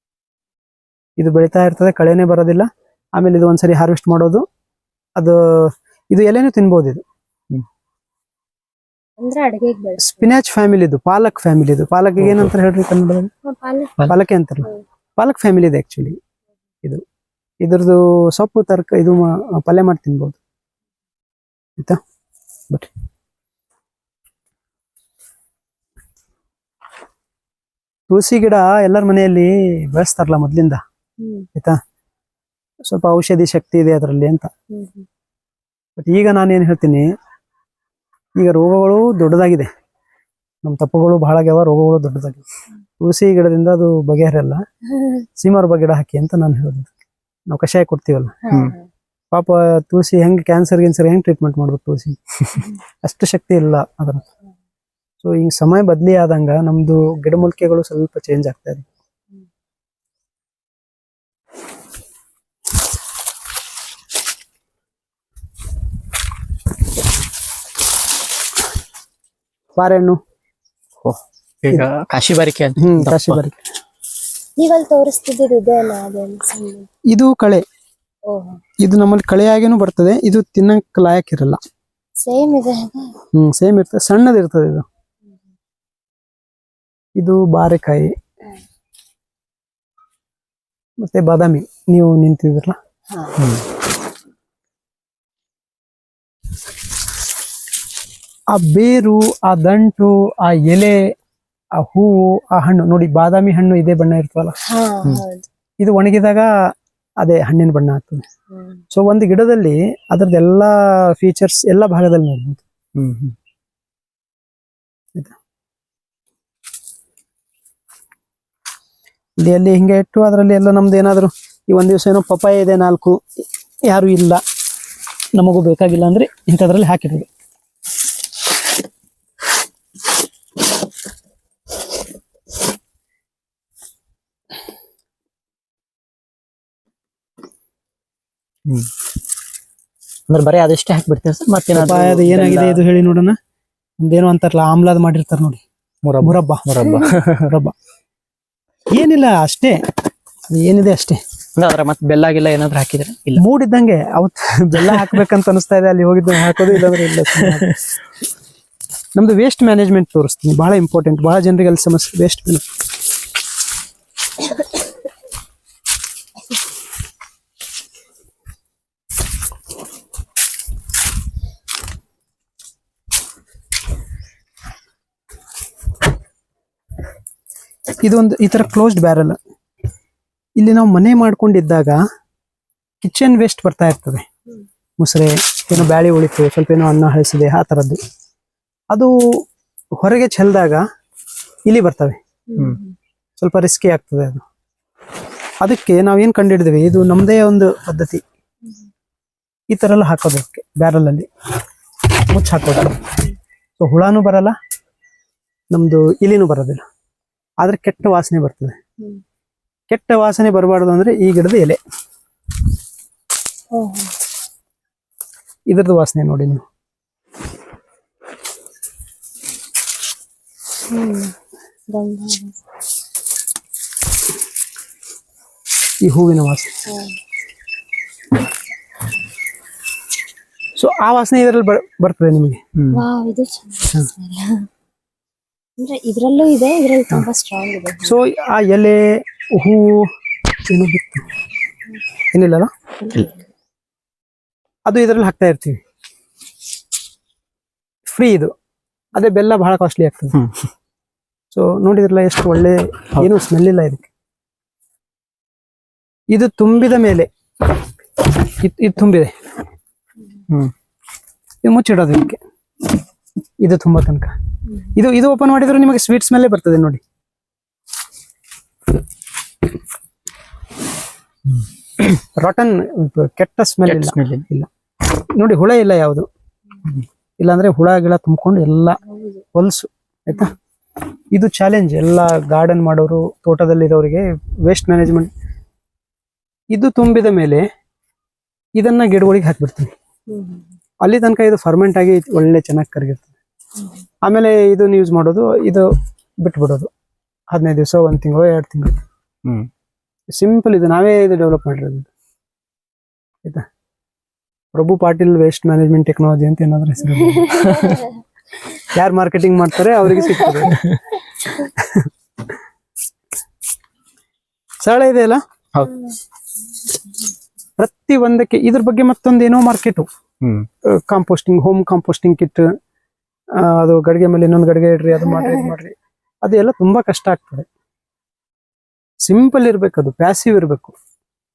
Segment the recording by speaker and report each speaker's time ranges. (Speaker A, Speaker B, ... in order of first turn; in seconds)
Speaker A: 1.2-4.4, 5.2-7.0, 10.0-13.3, 14.0-16.2, 17.6-20.4, 28.1-30.8, 32.9-34.5, 36.0-37.1, 38.4-39.7, 40.6-42.4, 43.0-44.6, 45.4-46.9, 47.5-48.4, 49.3-52.2, 53.0-54.2, 55.2-58.9, 69.8-70.2, 72.8-73.6, 77.1-77.6, 78.8-81.6, 83.3-84.8, 87.2-88.1, 91.0-92.8, 98.5-101.1, 101.7-104.5, 105.8-108.2, 108.9-112.6, 119.4-124.4, 125.3-127.3, 141.7-143.4, 144.0-145.6, 146.2-146.7, 147.4-147.7, 148.9-149.8, 150.5-151.2, 153.3-157.7, 159.1-162.6, 178.0-179.4, 180.6-182.0, 183.0-184.2, 185.0-188.0, 188.9-189.4, 190.0-190.8, 191.7-192.2, 193.4-194.4, 195.6-198.2, 199.7-201.3, 202.3-203.1, 203.8-204.6, 205.7-206.8, 207.6-208.8, 209.9-211.8, 215.7-216.6, 226.0-226.7, 230.8-232.6, 238.0-240.1, 240.7-241.2, 242.3-242.7, 244.8-245.8, 248.1-248.5, 249.1-250.4, 251.5-254.1, 256.3-257.3, 258.4-259.3, 261.6-262.4, 263.6-267.0, 272.0-276.3, 277.4-279.0, 279.5-280.5, 281.3-285.3, 286.7-287.6, 288.8-289.9, 291.0-293.3, 294.2-295.9, 296.4-296.9, 297.5-299.0, 300.3-302.1, 304.7-308.0, 308.8-310.9, 311.4-312.1, 314.8-315.4, 317.8-320.1, 320.8-322.7, 323.6-327.7, 329.2-330.9
Speaker B: 9.2-10.3, 13.4-14.0, 31.2-31.5, 34.7-35.1, 48.4-48.9, 74.6-76.9, 78.3-78.6, 82.2-83.2, 93.1-93.4, 104.6-105.5, 192.5-192.9, 213.7-214.1, 220.9-221.3, 221.9-222.6, 226.9-227.1, 232.9-234.7, 235.8-238.1, 243.0-243.3, 279.1-279.4, 290.3-290.7
Speaker C: 12.2-12.5, 48.5-48.8, 71.0-73.4, 93.4-93.6, 113.0-113.3, 140.3-142.8, 146.0-147.5, 151.6-153.4, 154.8-155.2, 156.6-157.8, 232.7-233.0, 250.3-250.7, 273.8-274.4, 310.7-311.0, 315.7-316.0, 320.4-320.7